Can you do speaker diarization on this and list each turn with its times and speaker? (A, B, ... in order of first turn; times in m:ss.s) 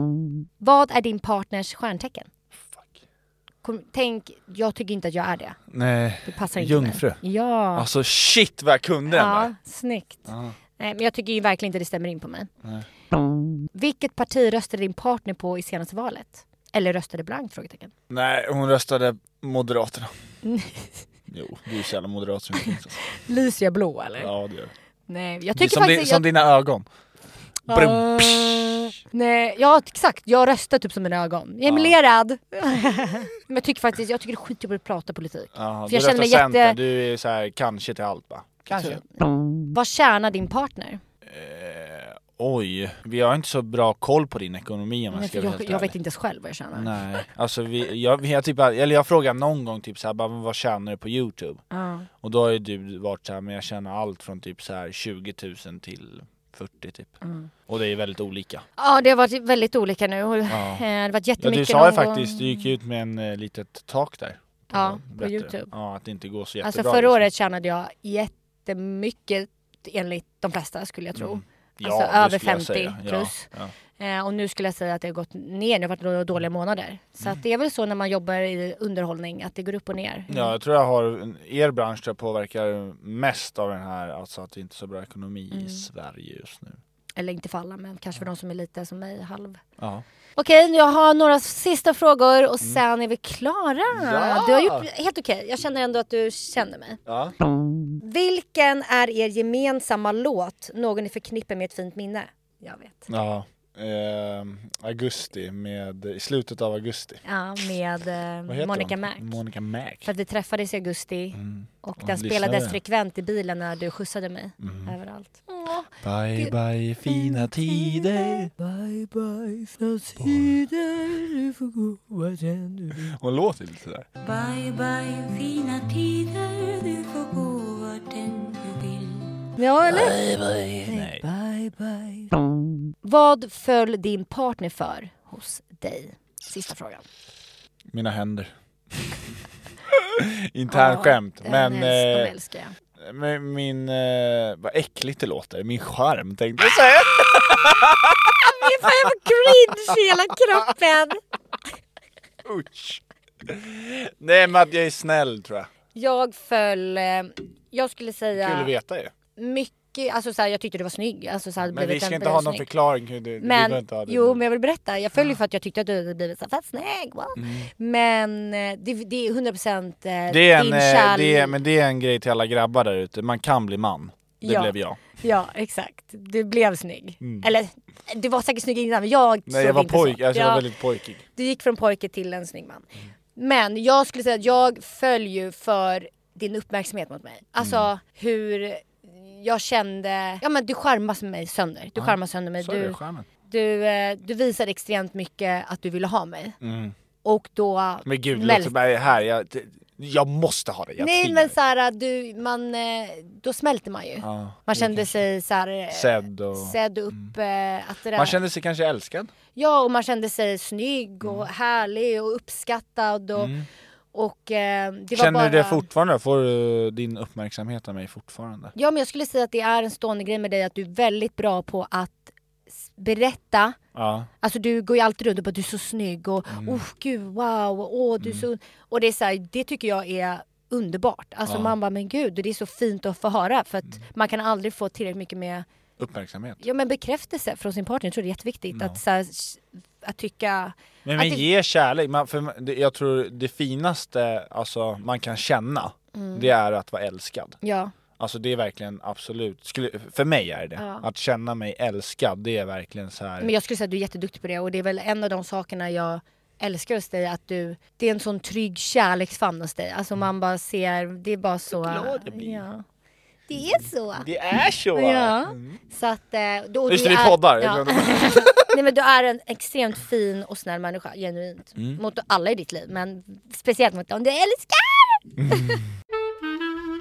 0:00.6-0:02.3 A
0:02.7-0:03.0 B
0:03.6-0:05.6 A
0:05.7-0:07.2 B
0:06.2-0:07.9 A
0:07.7-0:09.5 B
0:09.1-0:12.5 A
0:10.3-0:10.6 B
0:13.7-0:17.9 A
0:18.1-0:20.1 B
0:20.4-0:20.9 A
0:21.3-0:23.0 B
0:22.6-0:24.3 A
0:24.2-0:24.7 B
0:25.1-0:26.3 A
0:25.5-0:26.9 B
0:27.7-0:28.9 B
0:27.7-0:36.8 A
0:31.6-0:31.9 B
0:35.5-0:39.0 B
0:38.7-0:41.0 A
0:41.2-0:45.9 B
0:45.1-0:46.9 A
0:46.7-0:51.6 B
0:51.7-0:52.1 A
0:52.2-0:58.6 B
0:57.2-0:57.5 A
0:58.8-1:02.6 A
1:00.5-1:00.8 B
1:01.4-1:07.2 B
1:04.7-1:05.7 A
1:06.6-1:20.5 A
1:11.1-1:13.7 B
1:20.3-1:26.8 B
1:25.5-1:25.8 A
1:27.2-1:29.6 A
1:29.8-1:30.0 B
1:30.4-1:37.0 A
1:33.9-1:34.9 B
1:37.0-1:37.3 B
1:38.0-1:43.1 A
1:43.1-1:47.2 B
1:47.2-1:49.4 A
1:48.5-1:50.1 B
1:50.0-1:56.5 A
1:51.3-1:52.8 B
1:54.6-1:54.9 B
1:56.0-1:58.5 B
1:57.0-2:03.1 A
2:00.2-2:00.6 B
2:02.9-2:04.1 B
2:04.2-2:09.4 C
2:09.6-2:10.2 A
2:09.8-2:11.2 B
2:10.8-2:12.3 A
2:13.0-2:17.0 A
2:17.9-2:19.2 B
2:19.9-2:22.3 B
2:20.7-2:22.7 A
2:23.0-2:29.9 B
2:28.3-2:31.2 A
2:32.4-2:35.7 B
2:35.9-2:38.7 A
2:38.4-2:39.1 B
2:39.4-2:42.7 A
2:41.7-2:44.4 B
2:43.4-2:51.6 A
2:47.4-2:47.7 B
2:50.3-2:55.0 B
2:54.4-3:00.6 A
2:57.2-2:57.5 B
2:59.5-3:01.2 B
3:01.4-3:16.6 A
3:07.6-3:07.9 B
3:12.0-3:13.3 B
3:16.6-3:16.9 B
3:17.2-3:18.7 A
3:18.0-3:21.5 B
3:21.0-3:28.4 A
3:24.2-3:25.2 B
3:25.9-3:27.3 B
3:28.1-3:29.3 B
3:29.6-3:33.5 A
3:33.4-3:33.7 B
3:34.1-3:35.8 A
3:35.1-3:38.7 B
3:38.7-3:43.8 A
3:43.9-3:44.3 B
3:44.4-3:55.6 A
3:46.5-3:46.8 B
3:48.2-3:48.4 B
3:51.4-3:51.7 B
3:56.0-3:56.6 B
3:56.6-4:01.4 A
3:58.7-3:59.0 B
4:01.0-4:07.6 B
4:06.1-4:06.5 A
4:07.6-4:07.9 A
4:08.2-4:13.5 B
4:10.8-4:11.0 A
4:13.4-4:22.8 A
4:21.7-4:22.6 B
4:23.5-4:24.3 A
4:24.2-4:25.8 B
4:24.9-4:35.8 A
4:26.9-4:28.8 B
4:35.4-4:35.8 B